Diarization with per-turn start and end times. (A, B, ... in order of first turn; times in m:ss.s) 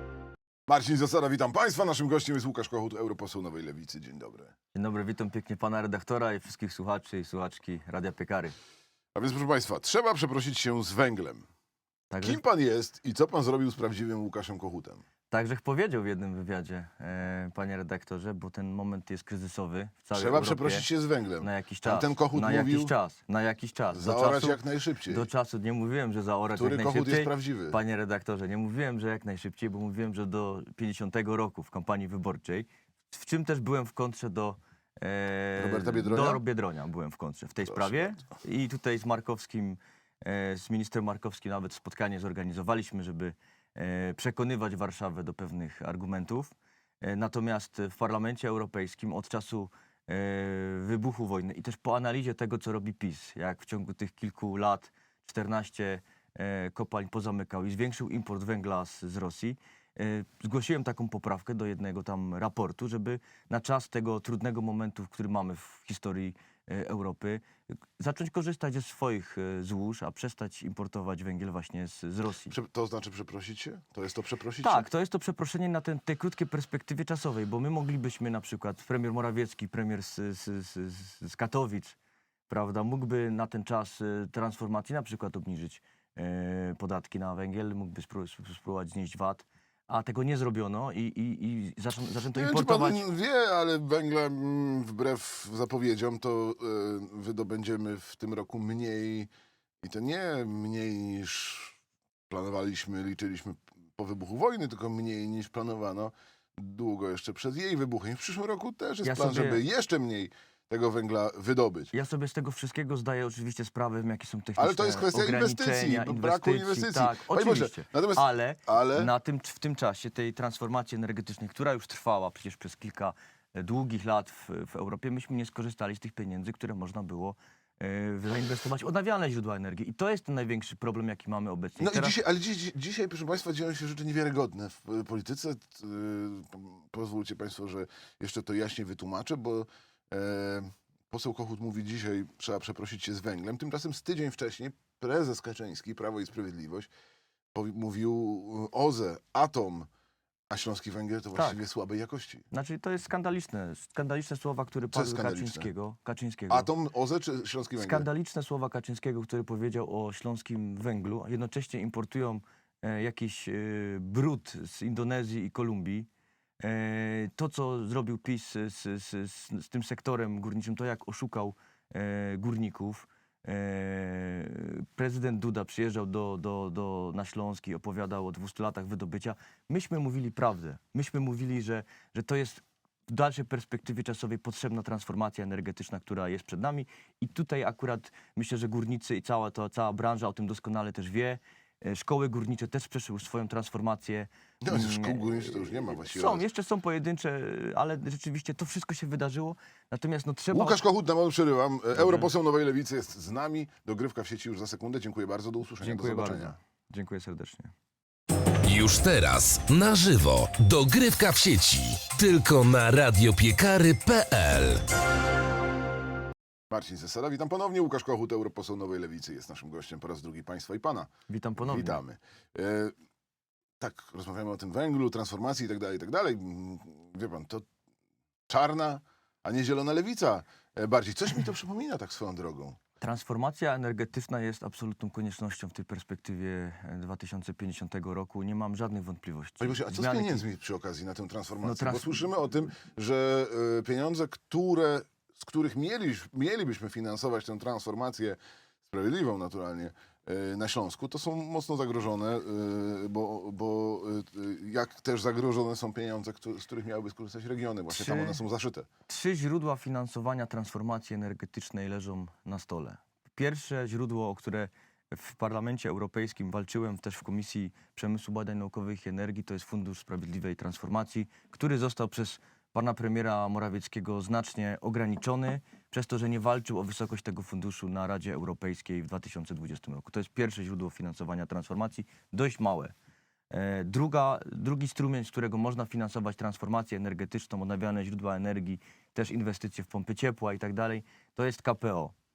0:00.7-0:04.5 A
0:04.7-0:08.6 B
0:09.1-0:11.4 A
0:12.1-0:12.4 B
0:12.2-0:15.0 A
0:15.3-0:20.8 B
0:20.1-0:22.9 A
0:21.4-0:24.6 B
0:23.9-0:25.2 A
0:25.1-1:07.4 B
0:26.6-0:27.8 A
0:35.6-0:36.4 A
0:37.7-0:38.2 A
1:08.0-1:12.5 B
1:12.5-1:14.8 A
1:14.6-1:22.0 B
1:22.5-1:33.0 B
1:32.3-1:39.3 A
1:39.8-1:41.8 A
1:42.3-1:51.9 A
1:49.0-1:49.6 B
1:51.9-2:12.2 B
1:54.6-1:59.1 A
2:11.8-2:26.9 A
2:27.5-2:29.9 A
2:30.5-2:32.4 A
2:32.5-2:36.7 B
2:34.9-2:35.7 A
2:36.5-2:38.1 A
2:37.8-2:46.1 B
2:46.6-3:20.8 B
3:14.6-3:16.4 A
3:20.5-3:26.6 A
3:21.9-3:22.3 B
3:25.8-3:27.7 B
3:28.6-3:34.8 C
3:36.7-3:42.9 A
3:41.3-3:42.0 B
3:43.8-3:47.7 A
3:48.5-3:52.8 A
3:53.0-4:00.4 B
3:59.6-4:18.9 A
4:01.6-4:02.2 B
4:17.9-4:18.4 B
4:19.1-4:42.9 B
4:43.5-4:52.1 B